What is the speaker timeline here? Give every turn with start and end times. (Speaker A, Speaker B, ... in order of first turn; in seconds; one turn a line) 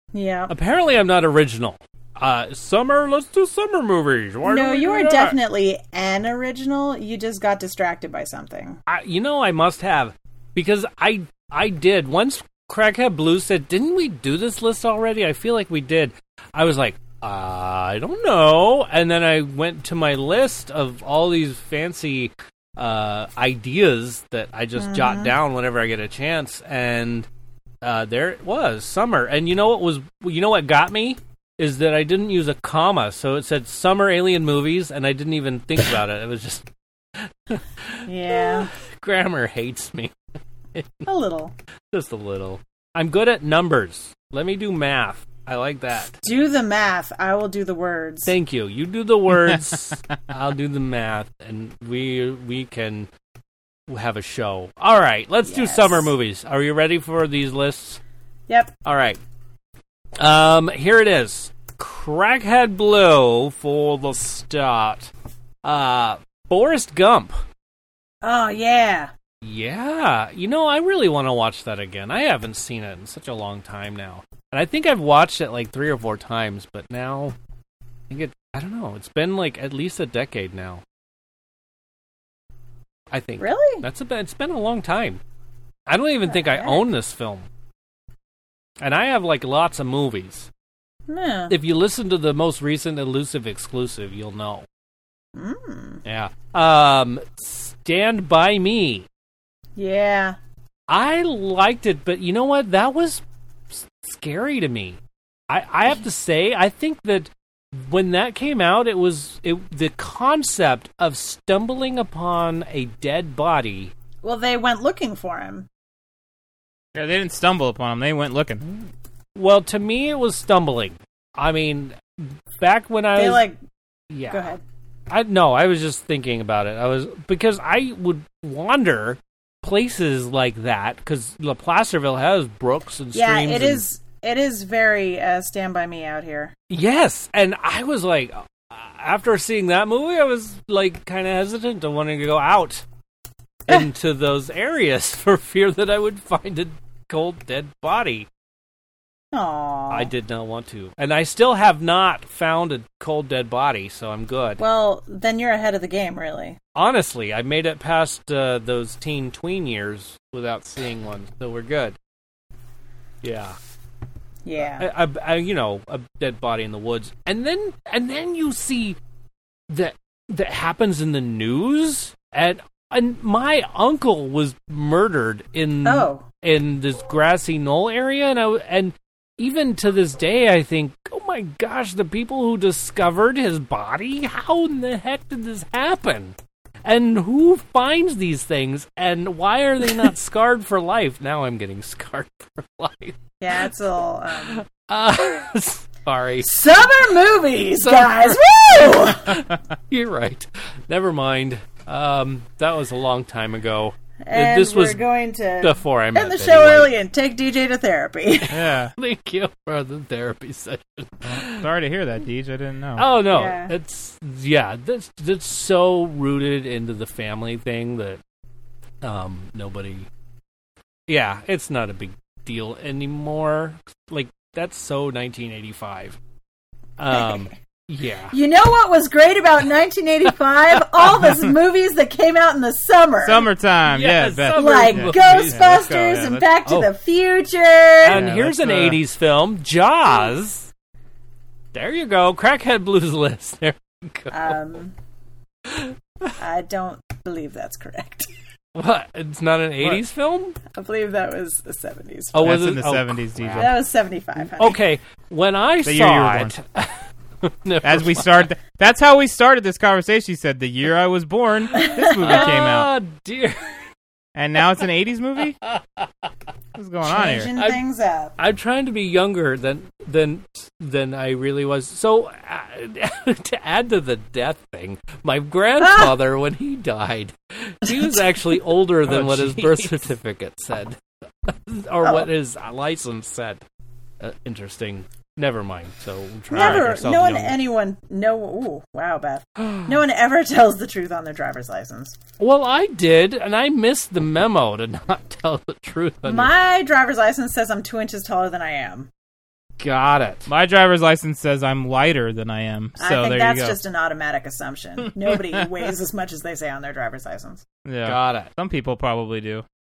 Speaker A: 0.1-0.5
Speaker B: 0.5-5.4
Speaker A: 4.4-8.8
Speaker B: 8.9-27.3
Speaker A: 24.8-25.3
Speaker B: 27.8-36.7
Speaker B: 37.2-40.1
Speaker A: 38.0-38.7
Speaker B: 40.7-41.1
Speaker A: 41.0-41.5
Speaker B: 41.9-46.2
Speaker A: 46.2-48.3
Speaker B: 48.2-53.1
Speaker B: 53.9-58.0
Speaker A: 55.4-56.1
Speaker B: 58.8-59.2
Speaker B: 60.2-65.1
Speaker B: 65.6-67.4
Speaker A: 68.2-69.1
Speaker B: 69.4-77.3
Speaker B: 78.1-80.8
Speaker B: 83.1-85.2
Speaker A: 83.4-83.8
Speaker B: 85.9-87.5
Speaker A: 86.2-86.8
Speaker B: 88.8-90.5
Speaker A: 91.1-91.5
Speaker B: 91.5-94.7
Speaker A: 95.3-96.0
Speaker B: 96.0-99.1
Speaker A: 99.8-100.4
Speaker B: 100.9-113.9
Speaker A: 114.2-115.7
Speaker C: 116.9-118.6
Speaker B: 119.3-123.4
Speaker A: 123.1-123.6
Speaker B: 124.1-124.5
Speaker A: 124.3-124.6
Speaker B: 125.1-133.8
Speaker A: 133.1-136.5
Speaker B: 136.7-142.8
Speaker B: 143.7-148.3
Speaker A: 149.3-150.1
Speaker B: 149.9-154.6
Speaker A: 154.6-156.6
Speaker B: 156.7-161.9
Speaker B: 163.2-163.6
Speaker A: 164.4-164.9
Speaker B: 164.6-169.0
Speaker B: 169.7-193.3
Speaker A: 175.8-176.2
Speaker A: 193.4-194.6
Speaker B: 194.4-196.6
Speaker A: 196.4-199.4
Speaker B: 197.8-205.0
Speaker A: 204.2-208.6
Speaker B: 205.6-206.9
Speaker C: 208.5-208.9
Speaker B: 208.9-211.7
Speaker C: 211.2-213.1
Speaker B: 213.0-218.2
Speaker A: 213.3-213.7
Speaker B: 219.0-220.1
Speaker B: 221.1-226.2
Speaker B: 227.0-228.3
Speaker A: 227.1-227.5
Speaker A: 228.3-233.5
Speaker B: 230.8-231.5
Speaker C: 233.2-236.5
Speaker B: 233.8-235.9
Speaker A: 234.5-238.2
Speaker B: 236.6-236.9
Speaker B: 238.0-240.7
Speaker C: 238.1-239.0
Speaker B: 241.7-244.8
Speaker A: 244.3-244.9
Speaker B: 245.7-246.3
Speaker A: 246.4-248.3
Speaker B: 248.7-250.6
Speaker A: 250.7-252.6
Speaker B: 252.3-253.8
Speaker C: 252.4-253.7
Speaker A: 253.6-254.8
Speaker B: 254.5-258.5
Speaker C: 255.8-256.6
Speaker C: 257.8-262.9
Speaker A: 261.7-262.2
Speaker B: 261.7-263.8
Speaker C: 264.4-265.6
Speaker B: 265.6-266.1
Speaker C: 266.7-267.5
Speaker A: 267.1-268.3
Speaker B: 267.6-267.8
Speaker B: 268.4-283.6
Speaker A: 275.8-276.1
Speaker A: 277.9-278.6
Speaker C: 279.1-279.9
Speaker A: 282.0-282.3
Speaker B: 284.2-287.6
Speaker A: 286.5-292.1
Speaker B: 289.6-289.9
Speaker B: 292.4-296.5
Speaker A: 296.2-299.1
Speaker B: 299.8-300.5
Speaker C: 300.5-303.8
Speaker A: 303.0-307.6
Speaker C: 305.0-305.7
Speaker C: 307.8-309.6
Speaker B: 308.0-308.5